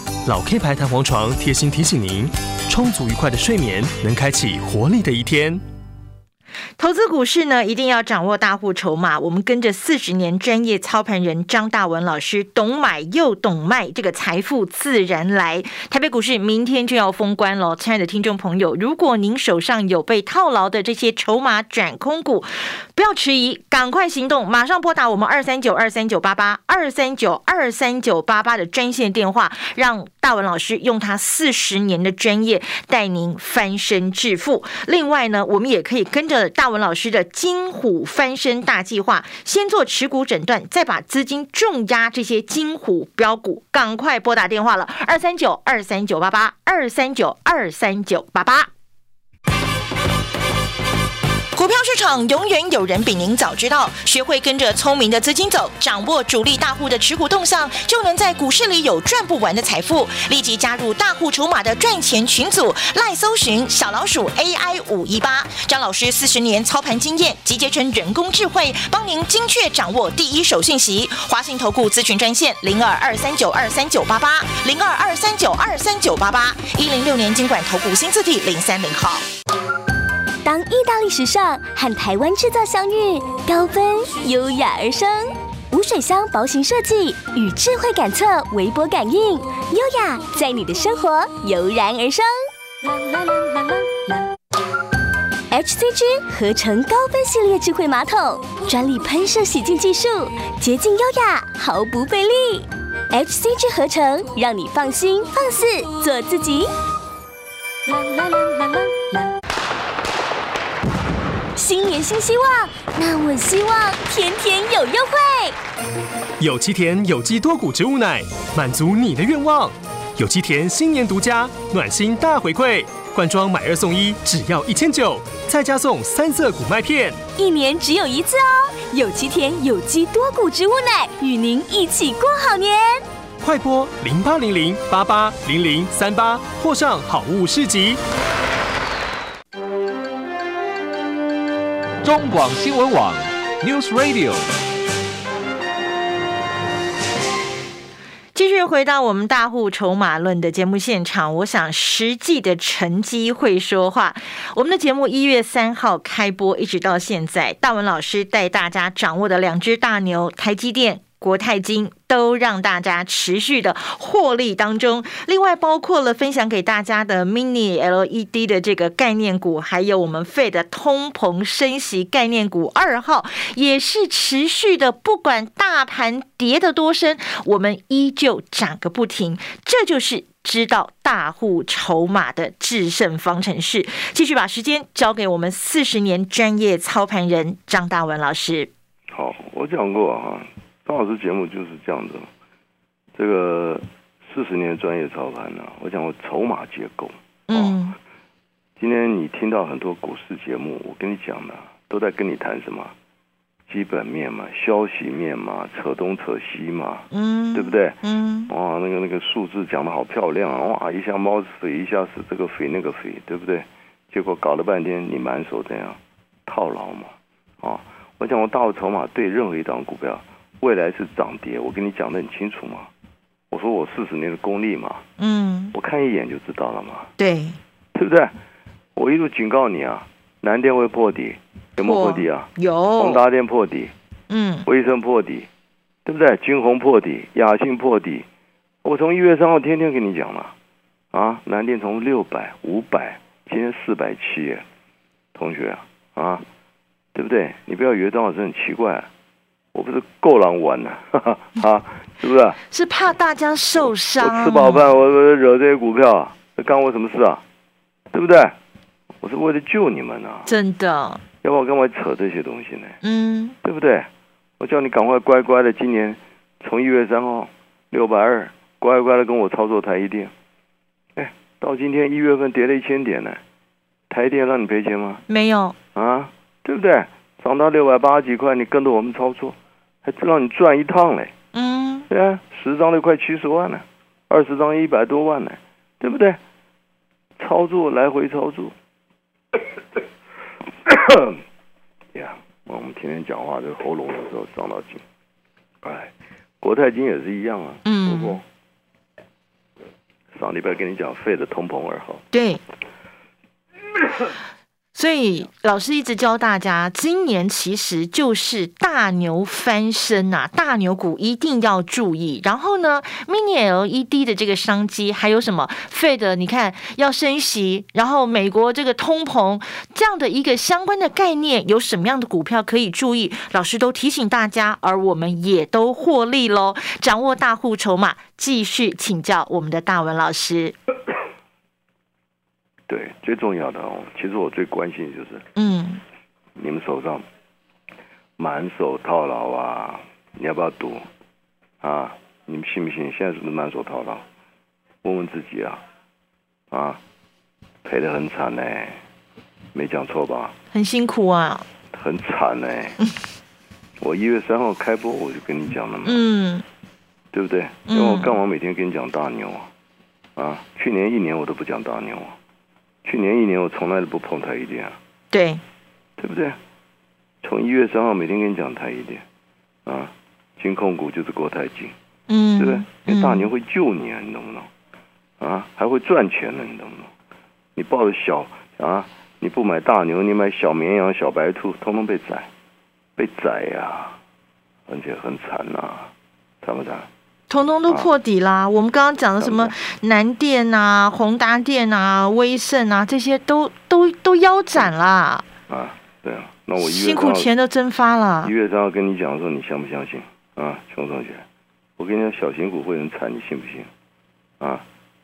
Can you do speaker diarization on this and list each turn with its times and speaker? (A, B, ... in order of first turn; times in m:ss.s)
0:00.2-0:05.6 A
0:06.8-0:48.7 B
0:51.6-1:19.2 B
1:20.4-1:32.3 C
1:33.3-1:33.7 C
1:35.5-1:46.7 C
1:48.0-1:48.8 C
1:51.6-1:55.6 C
1:56.4-2:07.2 A
2:07.4-2:13.0 C
2:13.4-2:18.0 A
2:22.0-2:24.5 D
2:28.4-3:08.7 B
3:09.1-3:12.3 E
3:13.2-3:17.8 E
3:17.5-3:18.0 B
3:18.8-3:22.9 E
3:23.7-3:42.9 E
3:27.1-3:28.5 B
3:43.5-3:45.0 E
3:45.2-3:45.7 B
3:45.7-3:47.1 E
3:47.2-3:47.6 B
3:47.9-3:48.3 E
3:49.0-3:53.9 E
3:51.8-3:53.2 B
3:54.3-3:54.7 B
3:54.7-3:55.5 E
3:56.0-3:58.3 E
3:58.8-4:00.5 E
4:01.1-4:04.6 E
4:05.3-4:06.5 E
4:07.1-4:09.1 E
4:09.7-4:12.6 E
4:12.7-4:14.9 B
4:13.8-4:17.4 E
4:18.1-4:18.6 E
4:19.2-4:20.5 E
4:20.5-4:21.2 B
4:21.4-4:23.0 E
4:23.0-4:23.6 B
4:23.6-4:30.3 E
4:31.2-4:33.4 E
4:34.1-4:35.2 E
4:35.3-4:35.8 B
4:36.0-4:41.3 E
4:41.5-4:42.1 B
4:42.1-4:46.4 E
4:47.4-4:48.8 E
4:50.8-4:51.4 E
4:52.1-4:55.0 E
4:55.8-4:58.4 E
4:57.8-4:58.4 B
5:00.3-5:02.2 E
5:02.3-5:02.6 B
5:05.0-5:30.8 B
5:32.9-5:35.4 E
5:35.6-5:36.0 B
5:36.6-5:37.2 E
5:38.4-5:41.0 E
5:41.8-5:44.2 E
5:45.0-5:45.8 E
5:46.7-5:47.0 E
5:47.8-5:49.0 E
5:49.7-5:50.6 E
5:50.7-5:51.7 B
5:51.9-5:53.0 E
5:54.0-5:56.3 E
5:56.0-5:56.6 B
5:57.3-5:59.7 E
5:57.9-5:58.4 B
6:00.4-6:02.4 E
6:03.0-6:05.0 E
6:05.3-6:05.6 B
6:06.2-6:06.6 E
6:07.4-6:09.2 E
6:09.9-6:11.9 E
6:12.3-6:13.5 B
6:12.6-6:14.7 E
6:15.4-6:17.1 E
6:17.8-6:22.5 E
6:23.2-6:24.2 E
6:24.9-6:26.1 E
6:26.6-6:27.1 E
6:27.5-6:35.4 B
6:29.4-6:29.7 E
6:35.7-6:37.5 E
6:36.8-6:38.5 B
6:38.4-6:41.5 E
6:42.0-6:43.9 E
6:44.6-6:44.8 E